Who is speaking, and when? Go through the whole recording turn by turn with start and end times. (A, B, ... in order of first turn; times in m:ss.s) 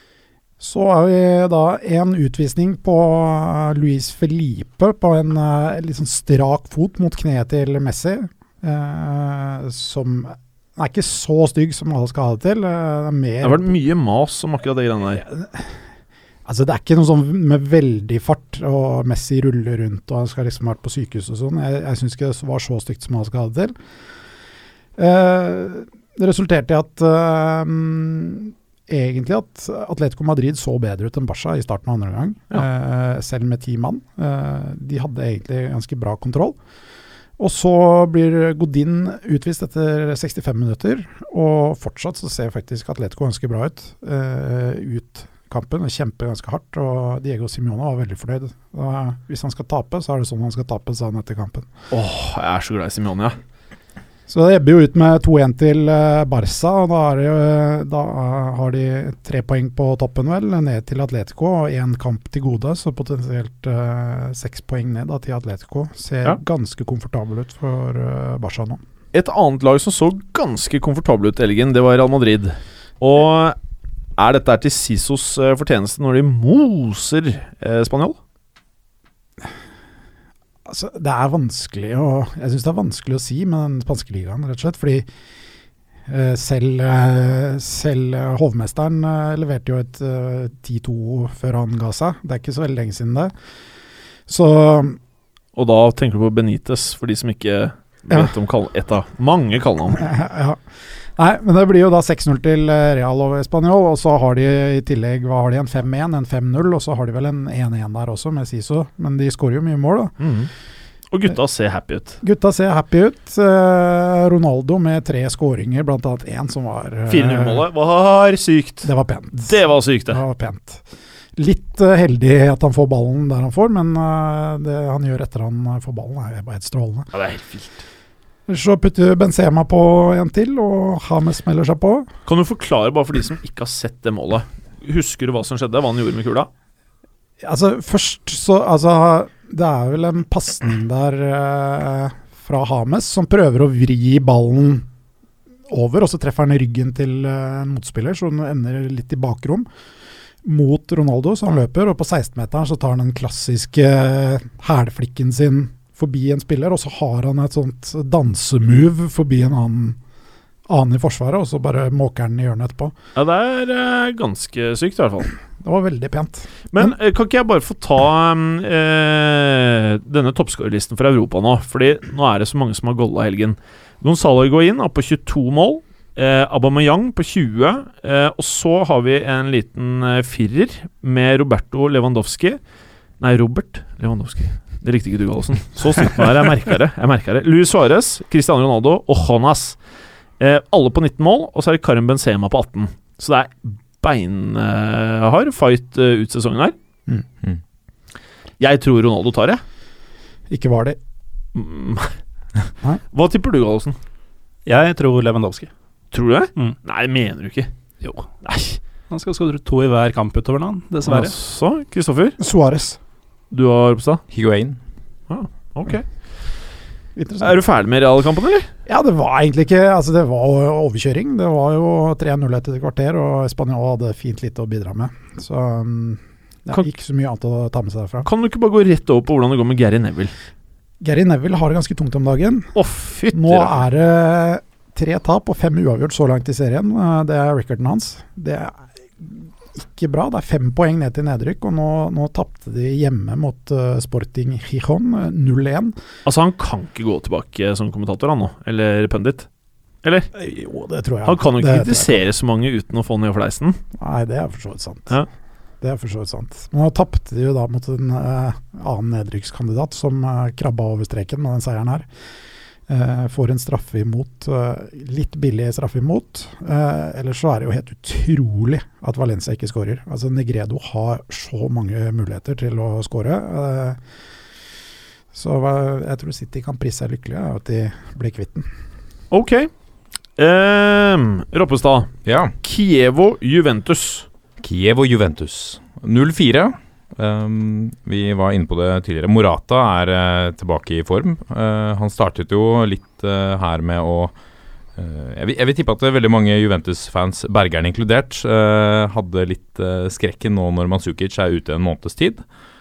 0:00.6-0:13.8 A
0:13.4-0:15.2 B
0:15.2-0:15.7 A
0:16.4-0:23.7 A
0:25.0-0:36.6 A
0:37.4-0:51.7 A
0:51.9-0:53.4 B
0:54.3-1:08.8 A
1:09.1-1:13.6 B
1:14.2-1:18.2 B
1:20.6-1:25.1 A
1:26.1-1:33.3 A
1:34.3-1:35.0 A
1:35.6-1:40.1 B
1:39.9-1:40.6 A
1:41.2-1:50.1 A
1:50.2-1:50.5 B
1:51.1-1:52.2 B
1:52.2-1:57.6 A
1:57.1-1:58.9 B
1:58.8-1:59.6 A
1:59.4-2:00.2 B
2:00.1-2:00.8 A
2:01.4-2:07.1 A
2:07.1-2:07.8 B
2:08.5-2:12.1 A
2:12.3-2:16.5 B
2:17.4-2:24.8 A
2:25.7-2:29.7 A
2:30.4-2:40.0 A
2:40.7-2:43.0 A
2:43.2-2:45.3 B
2:45.6-2:46.9 A
2:46.7-3:02.6 B
3:03.2-3:09.8 B
3:10.4-3:16.7 B
3:18.6-3:19.6 B
3:20.5-3:21.0 A
3:21.5-3:22.1 B
3:23.1-3:24.0 B
3:24.6-3:25.7 C
3:26.1-3:27.7 B
3:28.0-3:28.3 C
3:28.4-3:28.8 B
3:29.1-3:31.3 C
3:31.0-3:32.4 B
3:32.4-3:33.0 A
3:33.5-3:34.2 B
3:34.3-3:34.8 D
3:35.3-3:36.0 B
3:37.1-3:37.6 A
3:37.4-3:38.7 B
3:38.9-3:48.3 A
3:48.2-3:50.3 B
3:51.0-3:52.7 A
3:52.7-3:53.8 B
3:53.3-4:05.9 A
4:06.2-4:09.5 B
4:10.0-4:10.3 B
4:10.3-4:12.2 A
4:11.2-4:13.8 B
4:14.0-4:15.1 A
4:15.8-4:22.0 A
4:22.9-4:34.0 A
4:35.3-4:38.7 A
4:39.3-4:39.7 B
4:40.4-4:42.1 B
4:42.2-4:42.5 D
4:42.6-4:44.3 B
4:44.6-4:54.3 D
4:55.0-5:02.4 D